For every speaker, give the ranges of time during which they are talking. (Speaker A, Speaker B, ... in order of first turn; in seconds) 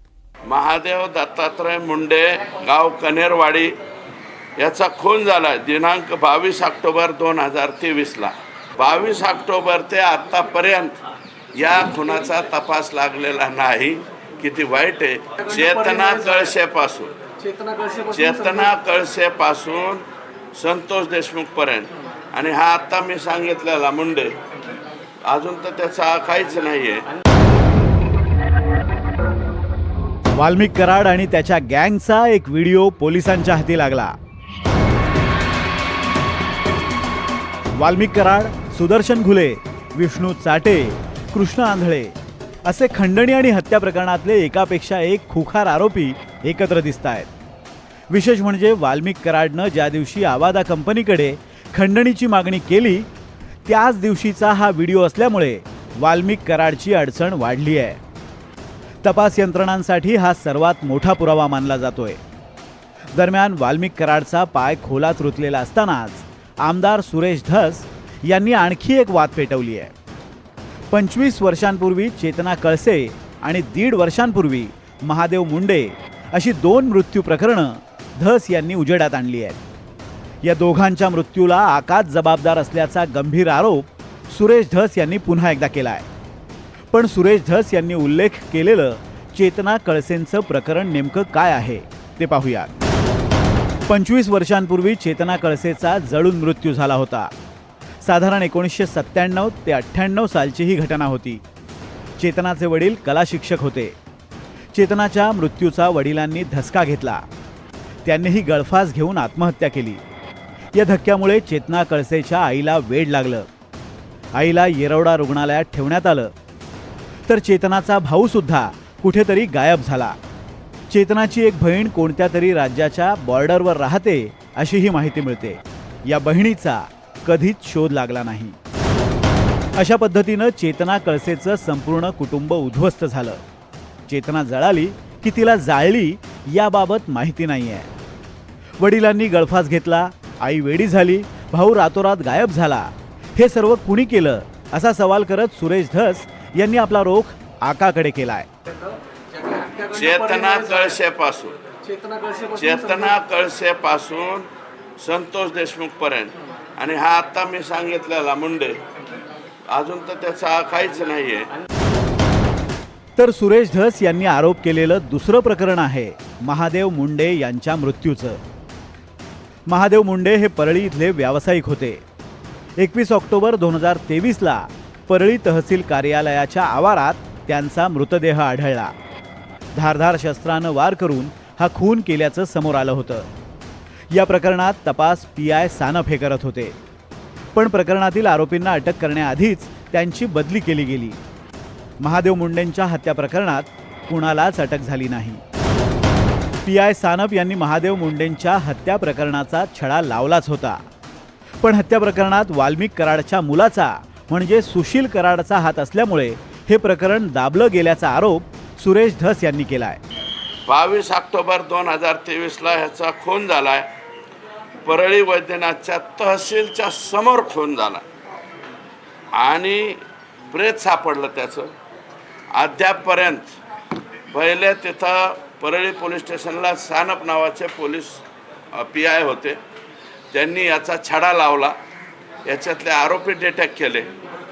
Speaker A: 0.5-3.7, 4.6-10.9, 11.6-17.1, 18.1-20.0, 20.6-24.3, 25.3-27.0, 149.9-151.6, 152.6-154.5, 155.0-158.8, 159.7-161.5, 210.7-213.9, 214.8-218.0, 219.3-220.0, 220.5-221.7, 222.5-223.6, 224.3-229.6, 230.3-231.8, 232.5-234.1
Speaker B: 15.5-16.5, 17.4-18.7, 149.4-151.0, 151.8-153.2
Speaker C: 30.4-34.1, 37.8-42.1, 42.7-47.3, 48.1-53.1, 53.7-58.0, 59.0-62.2, 63.1-69.9, 70.9-79.6, 80.4-86.1, 86.9-92.7, 93.9-97.3, 98.0-101.4, 102.2-104.0, 104.7-107.2, 108.0-110.0, 110.7-113.5, 114.3-116.3, 117.3-120.2, 120.9-128.6, 129.8-133.4, 134.1-137.9, 138.8-148.5, 163.2-168.4, 169.7-172.0, 172.8-178.9, 179.7-183.3, 184.1-186.8, 187.5-191.2, 192.0-195.4, 196.7-200.8, 201.6-210.0